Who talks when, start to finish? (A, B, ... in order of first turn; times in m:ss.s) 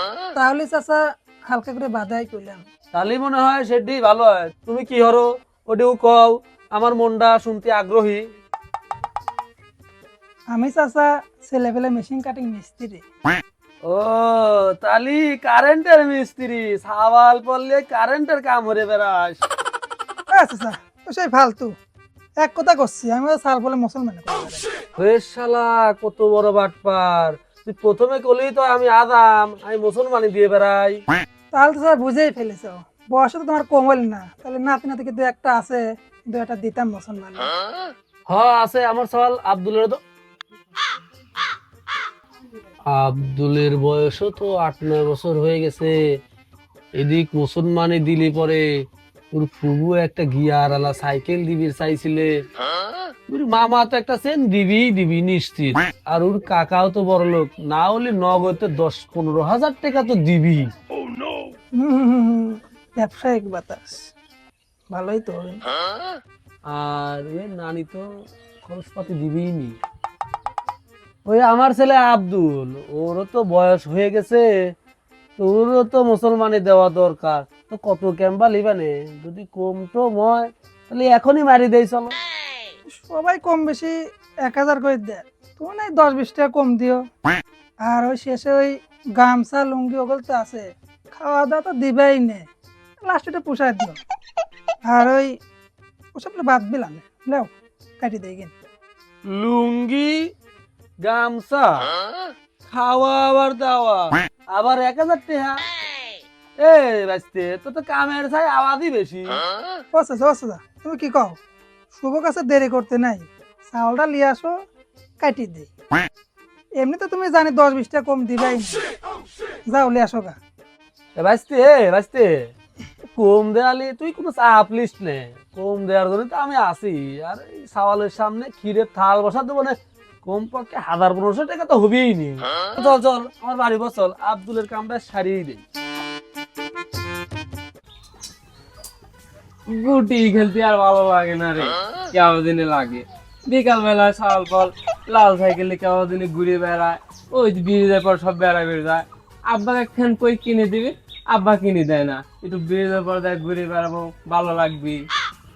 0:00.3-0:02.6 A
0:02.9-0:08.2 B
0:10.5-0:13.0 A
0:13.8-0:19.4 B
0:20.3-0:21.8 A
0:22.4-0:24.6 A
0:25.0-0:31.0 B
0:31.5-0:37.5 A
0:38.3-0:40.0 B
0:42.9-0:46.0 B
0:47.0-0:48.6 B
0:49.3-0:52.3 B
0:53.3-1:00.7 B
1:01.8-1:04.1 A
1:04.9-1:05.6 A
1:06.7-1:08.0 B
1:08.6-1:09.8 B
1:11.2-1:14.4 B
1:15.4-1:22.2 B
1:22.9-1:27.0 A
1:27.8-1:32.5 A
1:33.0-1:34.0 A
1:34.8-1:35.4 A
1:36.1-1:38.5 A
1:39.2-1:40.3 B
1:41.0-1:41.9 B
1:42.6-1:45.6 B
1:46.6-1:49.4 B
1:49.9-1:51.4 A
1:51.9-1:54.6 A
1:55.2-1:55.7 A
1:56.8-1:58.8 A
1:59.7-2:00.4 A
2:01.2-2:02.3 B
2:03.1-2:15.6 B
2:19.7-2:35.0 C